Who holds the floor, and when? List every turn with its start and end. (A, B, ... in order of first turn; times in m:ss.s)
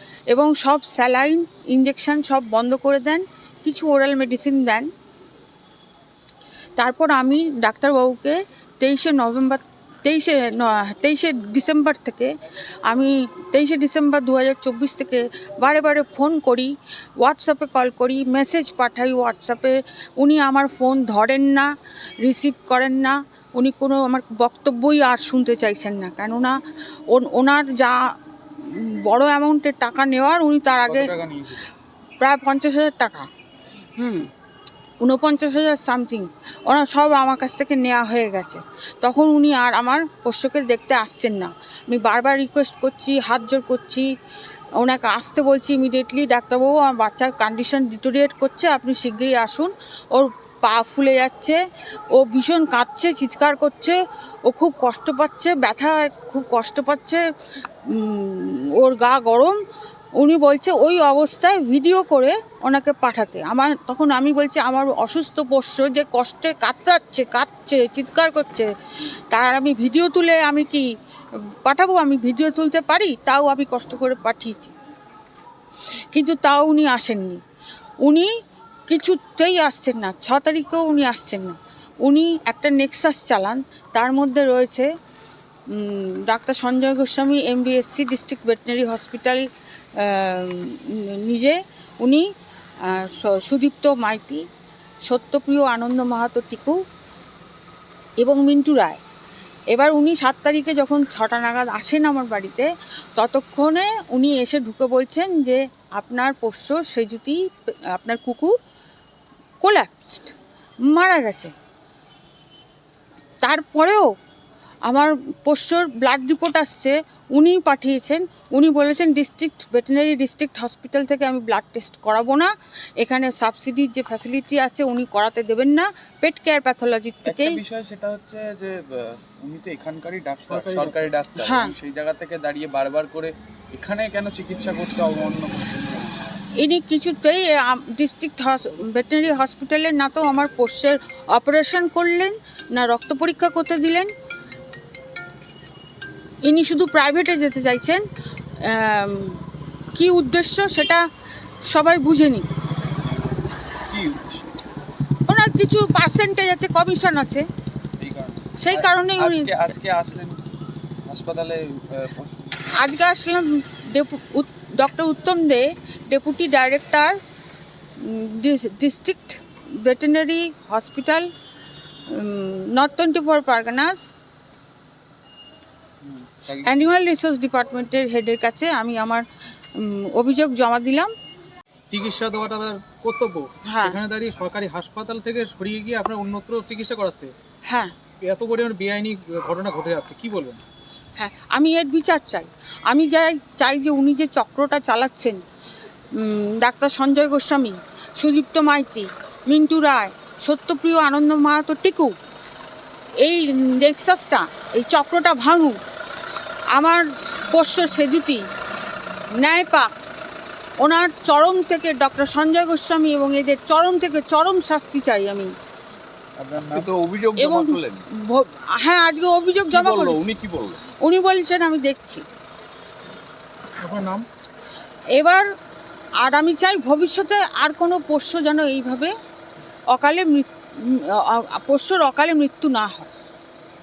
0:00.3-0:04.9 A
0:06.8-0:12.3 A
0:12.9-0:21.7 A
0:22.2-0:26.6 A
0:27.1-0:31.1 A
0:30.8-0:31.7 B
0:32.2-0:33.3 A
0:34.0-0:34.3 A
0:35.0-0:44.1 A
0:44.8-0:51.6 A
0:52.1-0:57.2 A
0:57.9-0:59.6 A
1:00.2-1:08.7 A
1:09.3-1:10.9 A
1:11.6-1:14.7 A
1:16.1-1:17.4 A
1:18.0-1:18.3 A
1:18.9-1:24.9 A
1:25.7-1:29.4 A
1:30.0-1:32.2 A
1:32.9-1:34.4 A
1:35.1-1:36.8 A
1:38.2-1:39.0 A
1:39.7-1:47.4 A
1:47.9-1:48.5 A
1:49.6-1:50.3 A
1:50.9-1:51.5 A
1:53.4-1:54.1 A
1:54.9-2:07.6 A
2:07.2-2:16.2 B
2:10.5-2:11.1 C
2:11.4-2:11.7 A
2:16.6-2:24.1 A
2:26.4-2:28.0 A
2:28.6-2:29.4 A
2:30.0-2:31.0 A
2:31.7-2:32.5 A
2:33.0-2:33.4 B
2:33.9-2:34.5 B
2:35.3-2:37.5 A
2:38.0-2:40.4 B
2:38.6-2:39.7 A
2:41.1-2:42.9 B
2:42.7-2:47.2 A
2:48.0-2:51.3 A
2:52.1-2:54.0 A
2:56.0-2:56.9 B
2:56.6-2:59.2 A
2:59.8-3:01.1 A
3:01.9-3:07.3 C
3:03.7-3:04.0 A
3:07.7-3:07.9 A
3:08.2-3:10.6 C
3:11.2-3:15.4 A
3:16.2-3:22.1 A
3:23.2-3:25.8 A
3:26.7-3:28.4 A
3:29.4-3:29.9 A
3:30.8-3:35.5 A
3:36.4-3:38.0 B
3:37.4-3:40.3 A
3:39.7-3:40.8 B
3:41.0-3:42.2 A
3:43.8-3:44.2 C
3:45.2-3:45.5 A
3:46.2-3:49.1 A
3:49.9-3:53.1 A